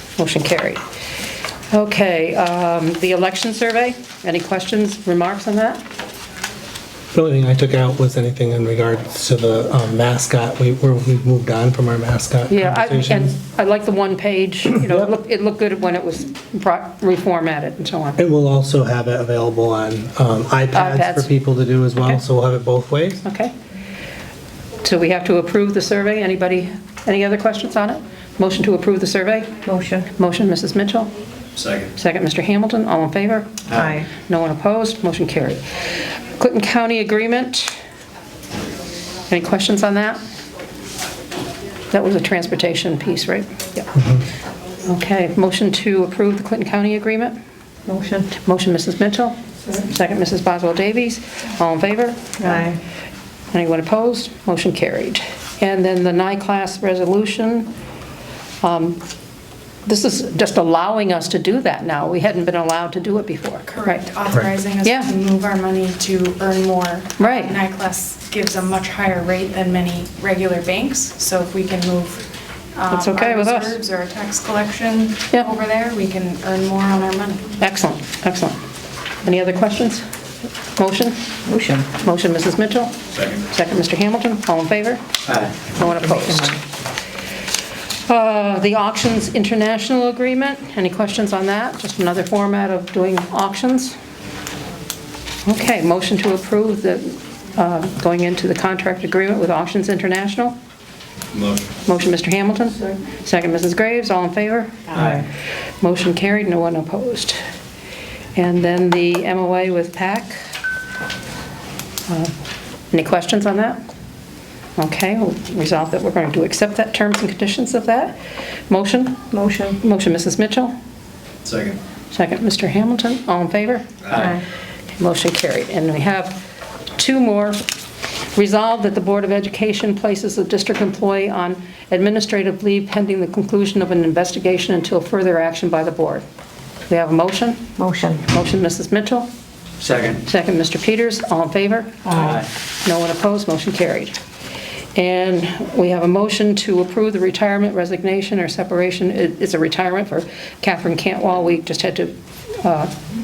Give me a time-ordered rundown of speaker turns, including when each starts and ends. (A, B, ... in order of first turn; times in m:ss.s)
0:00.2-0:00.8 A
0:01.7-0:05.8 A
0:07.1-0:13.3 B
0:12.5-0:18.2 A
0:14.7-0:15.0 B
0:18.2-0:23.2 B
0:20.7-0:21.3 A
0:23.2-0:23.5 A
0:24.8-0:29.5 A
0:29.6-0:30.1 C
0:30.2-0:31.1 A
0:31.6-0:31.9 D
0:32.0-0:33.6 A
0:33.7-0:34.1 C
0:34.2-0:35.6 A
0:36.4-0:37.8 A
0:39.3-0:40.2 A
0:41.9-0:43.9 A
0:44.8-0:47.4 A
0:47.9-0:48.3 C
0:48.3-0:52.6 A
0:52.4-0:52.8 C
0:53.5-0:57.7 A
0:58.6-0:59.0 A
0:59.8-1:04.0 A
1:03.7-1:17.4 E
1:04.8-1:05.1 A
1:07.2-1:07.6 A
1:12.9-1:13.8 A
1:17.6-1:18.6 A
1:19.2-1:20.0 A
1:20.8-1:21.3 A
1:21.5-1:21.8 C
1:22.0-1:25.0 A
1:23.1-1:23.4 D
1:25.3-1:25.5 D
1:25.6-1:26.6 A
1:26.0-1:26.4 C
1:28.1-1:34.0 A
1:35.4-1:40.6 A
1:41.3-1:41.7 D
1:41.8-1:45.2 A
1:45.0-1:45.2 C
1:45.8-1:47.4 A
1:48.4-1:50.4 A
1:52.1-1:52.3 A
1:52.9-1:53.8 A
1:54.8-1:58.2 A
1:58.7-1:59.3 A
1:59.3-1:59.8 C
1:59.8-2:00.7 A
2:01.4-2:01.8 D
2:02.1-2:04.2 A
2:04.1-2:04.4 C
2:05.0-2:06.4 A
2:07.0-2:07.6 A
2:08.3-2:16.2 A
2:16.9-2:17.6 A
2:17.8-2:18.2 C
2:18.2-2:19.3 A
2:19.8-2:20.2 D
2:20.2-2:24.2 A
2:22.0-2:22.4 C
2:22.2-2:22.5 D
2:25.0-2:32.9 A